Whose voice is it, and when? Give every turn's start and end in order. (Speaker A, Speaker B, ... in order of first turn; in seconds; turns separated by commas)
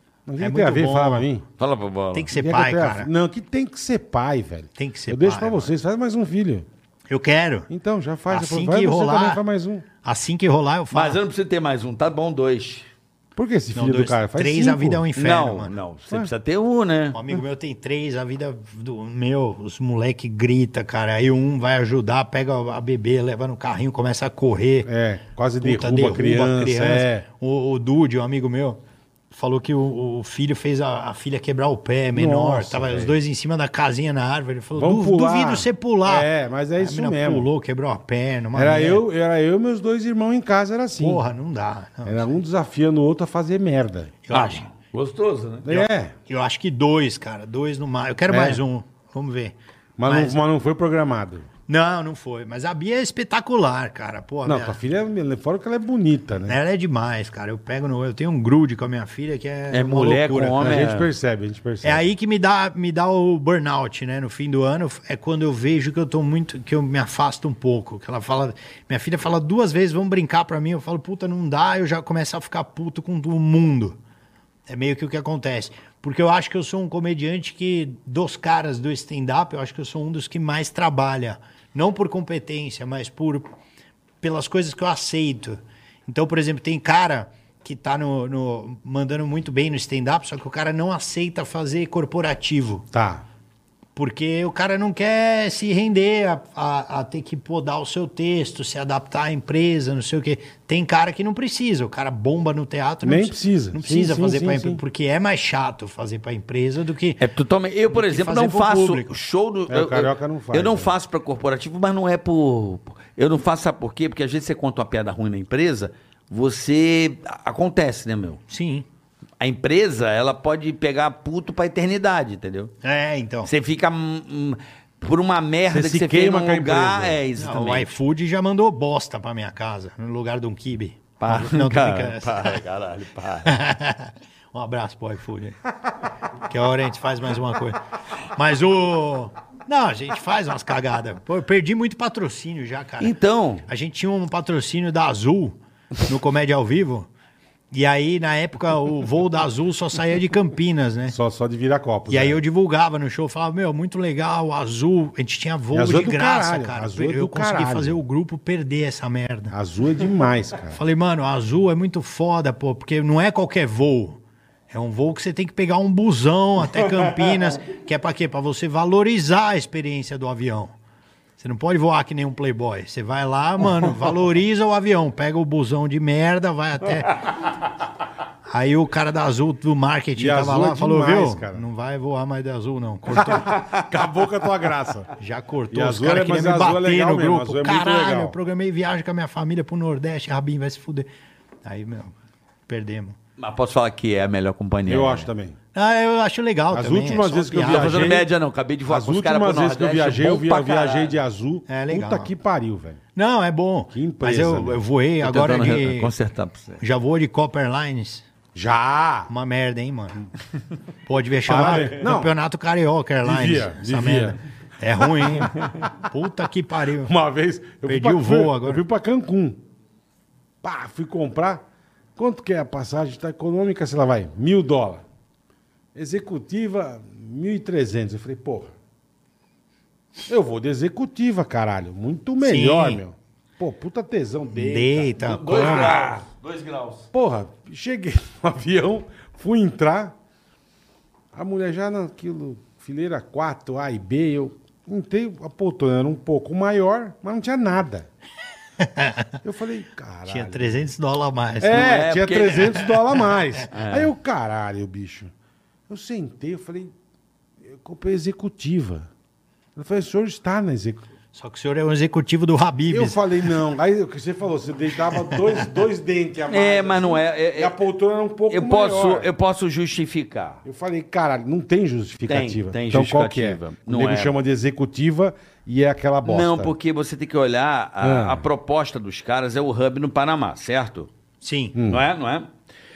Speaker A: 0.3-1.4, Speaker B: 0.4-1.3, Speaker C: 1.6-2.3, Speaker B: 2.1-3.1, Speaker A: 2.3-6.7, Speaker B: 4.8-5.7, Speaker B: 7.1-7.7, Speaker A: 7.7-9.8, Speaker B: 8.3-9.4, Speaker B: 10.0-11.2, Speaker C: 10.9-12.9, Speaker A: 13.3-15.0, Speaker B: 13.7-15.7, Speaker C: 15.2-17.2, Speaker B: 17.1-24.9, Speaker A: 24.8-27.2, Speaker B: 25.6-28.8, Speaker B: 29.3-39.0, Speaker A: 32.1-33.2, Speaker A: 34.8-37.5, Speaker A: 38.5-41.2, Speaker B: 41.0-42.3, Speaker A: 42.0-44.1, Speaker B: 44.2-44.7, Speaker C: 44.3-45.8, Speaker A: 45.6-46.1, Speaker B: 46.3-49.5, Speaker A: 48.3-48.6, Speaker A: 50.0-51.5, Speaker B: 50.0-50.4, Speaker B: 51.7-54.8, Speaker A: 54.4-56.6, Speaker B: 56.5-60.8, Speaker C: 59.7-61.1, Speaker A: 60.6-62.0, Speaker B: 61.8-74.0, Speaker B: 74.7-83.5, Speaker B: 84.2-92.8, Speaker A: 92.9-93.2, Speaker B: 94.0-107.2, Speaker A: 103.0-104.8, Speaker C: 107.2-118.4, Speaker B: 107.9-109.2, Speaker A: 109.7-110.9, Speaker B: 118.5-118.8, Speaker C: 119.4-122.7, Speaker B: 122.8-123.5, Speaker C: 123.5-128.0, Speaker A: 125.7-127.2, Speaker B: 127.4-132.6, Speaker C: 131.2-133.5, Speaker B: 133.4-135.6, Speaker B: 136.3-137.8, Speaker B: 138.3-143.1, Speaker C: 143.0-143.6, Speaker B: 143.7-147.1, Speaker B: 147.7-151.2, Speaker A: 151.1-152.4, Speaker B: 152.1-159.5, Speaker A: 155.7-158.0, Speaker A: 159.5-160.8, Speaker B: 160.7-170.7, Speaker B: 171.4-177.2, Speaker B: 178.5-183.6, Speaker A: 180.2-181.6, Speaker A: 183.1-185.1, Speaker B: 185.2-191.1, Speaker A: 185.7-188.4, Speaker B: 191.6-192.1, Speaker B: 192.7-193.2, Speaker C: 193.4-195.3, Speaker A: 194.8-195.6, Speaker B: 195.7-198.1, Speaker A: 196.7-198.3, Speaker C: 197.6-201.1, Speaker A: 198.9-203.0, Speaker B: 201.7-202.3, Speaker B: 203.1-206.1, Speaker A: 203.9-204.8, Speaker C: 205.2-206.8, Speaker B: 206.8-208.2, Speaker A: 208.5-209.3, Speaker B: 209.3-210.2, Speaker B: 211.1-217.1, Speaker A: 211.4-212.3, Speaker A: 213.2-214.4, Speaker A: 217.0-219.6, Speaker B: 217.8-218.8, Speaker A: 220.6-221.6, Speaker A: 222.2-225.0, Speaker A: 225.9-228.7, Speaker A: 230.3-236.1, Speaker B: 232.4-233.0, Speaker B: 234.5-236.1, Speaker C: 235.1-237.1, Speaker A: 237.1-240.1, Speaker A: 241.3-248.1, Speaker B: 248.8-249.3, Speaker A: 249.4-250.8, Speaker B: 250.3-252.0, Speaker A: 251.6-255.3, Speaker C: 251.7-252.8, Speaker C: 253.7-254.1, Speaker A: 255.9-256.9, Speaker A: 257.6-259.1, Speaker A: 259.8-261.0, Speaker B: 261.3-263.2, Speaker A: 262.9-269.3, Speaker C: 266.5-267.8, Speaker C: 268.5-270.6, Speaker A: 270.6-276.7, Speaker C: 272.3-274.3, Speaker C: 276.2-281.1, Speaker A: 278.0-278.5, Speaker B: 281.4-281.8, Speaker A: 281.7-282.0, Speaker C: 281.9-282.5